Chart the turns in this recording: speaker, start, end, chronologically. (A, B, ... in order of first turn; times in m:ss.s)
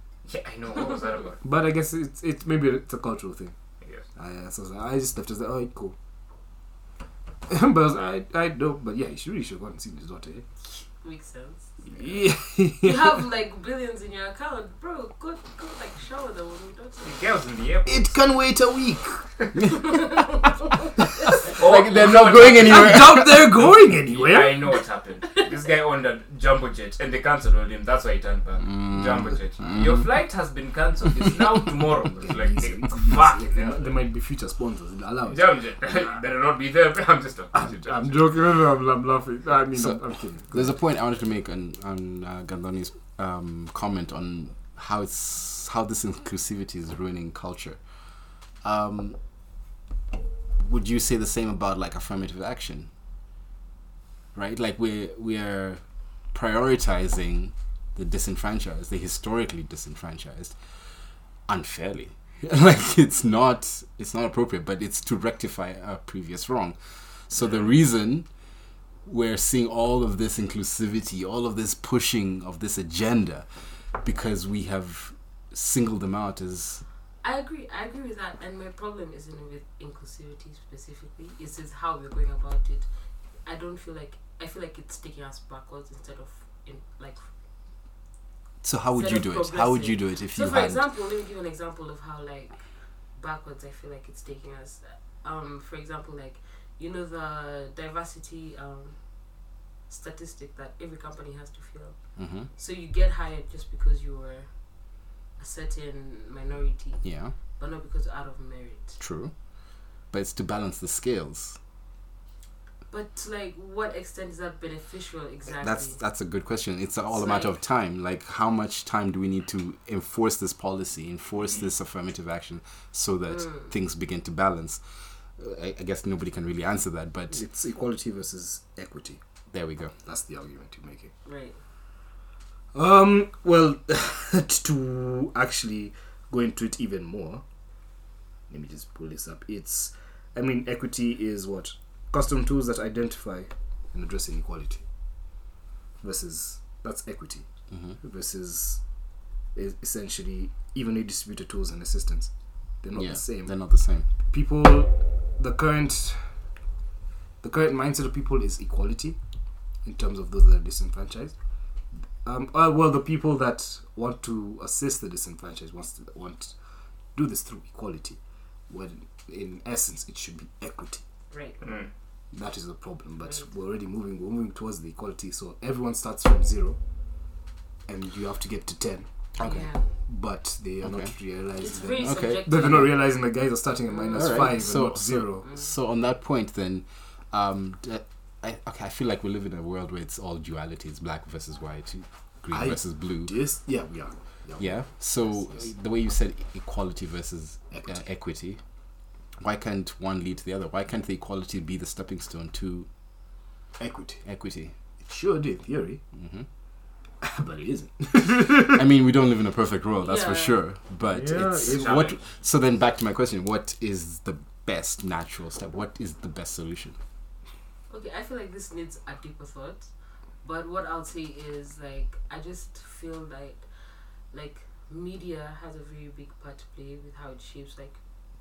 0:00.2-0:01.4 A
0:01.4-0:03.5 B
0:04.2-0:05.9 B
0:07.5-0:10.4 B
0:11.0-0:11.7 C
0:11.8-0:12.2 A
0:12.0-0:13.2 B
0:12.8-0:17.2 C
0:17.0-0:18.2 A
0:17.8-0:19.2 B
0:19.7-0:21.3 C
0:21.4-0:23.6 D
0:21.5-0:34.0 A
0:22.5-0:24.7 B
0:28.6-0:30.1 D
0:31.4-0:35.5 B
0:35.2-0:38.2 A
0:37.5-0:40.8 B
0:39.7-0:47.8 D
0:48.6-0:49.2 D
0:50.6-0:52.9 D
0:54.3-0:55.8 D
0:56.3-1:00.6 D
1:01.5-1:06.8 D
1:07.3-1:08.3 D
1:07.3-1:07.7 A
1:09.0-1:13.4 D
1:14.0-1:16.8 D
1:17.2-1:22.9 C
1:23.4-1:27.2 C
1:28.6-1:30.8 D
1:28.9-1:32.6 C
1:33.1-1:44.7 C
1:42.2-1:42.5 D
1:45.4-1:47.0 C
1:47.0-1:47.3 D
1:47.6-1:49.0 C
1:49.0-1:49.3 D
1:50.1-1:51.6 D
1:52.9-1:56.0 C
1:55.6-2:04.8 D
1:57.1-1:57.5 C
2:03.3-2:03.6 C
2:05.4-2:07.4 D
2:07.3-2:09.2 B
2:09.5-2:09.9 D
2:10.0-2:11.1 B
2:11.2-2:11.6 C
2:12.7-2:17.4 B
2:18.5-2:24.8 B
2:26.0-2:27.5 B
2:27.7-2:28.0 D
2:28.0-2:28.8 B
2:29.5-2:32.3 B
2:32.8-2:33.5 B
2:32.9-2:34.1 D
2:34.3-2:36.3 B
2:37.4-2:39.2 B
2:39.8-2:41.3 B
2:42.2-2:46.5 B
2:47.1-2:51.0 B
2:51.3-2:51.6 C
2:51.6-2:51.9 A
2:52.3-2:56.8 B
2:57.9-2:59.1 B
2:59.4-2:59.7 D
2:59.4-2:59.8 C
3:00.1-3:05.5 B
3:00.8-3:01.1 D
3:01.6-3:03.0 C
3:02.0-3:02.8 D
3:04.1-3:13.4 D
3:12.5-3:14.8 B
3:14.6-3:18.6 D
3:17.7-3:18.0 B
3:19.4-3:22.9 D
3:23.8-3:24.2 B
3:24.2-3:24.7 D
3:25.0-3:26.0 B
3:26.2-3:26.4 D
3:27.2-3:28.8 B
3:28.7-3:37.0 D
3:30.0-3:30.6 C
3:31.1-3:32.1 B
3:31.6-3:32.2 A
3:37.9-3:39.9 C
3:40.4-3:43.6 C
3:44.3-3:48.0 C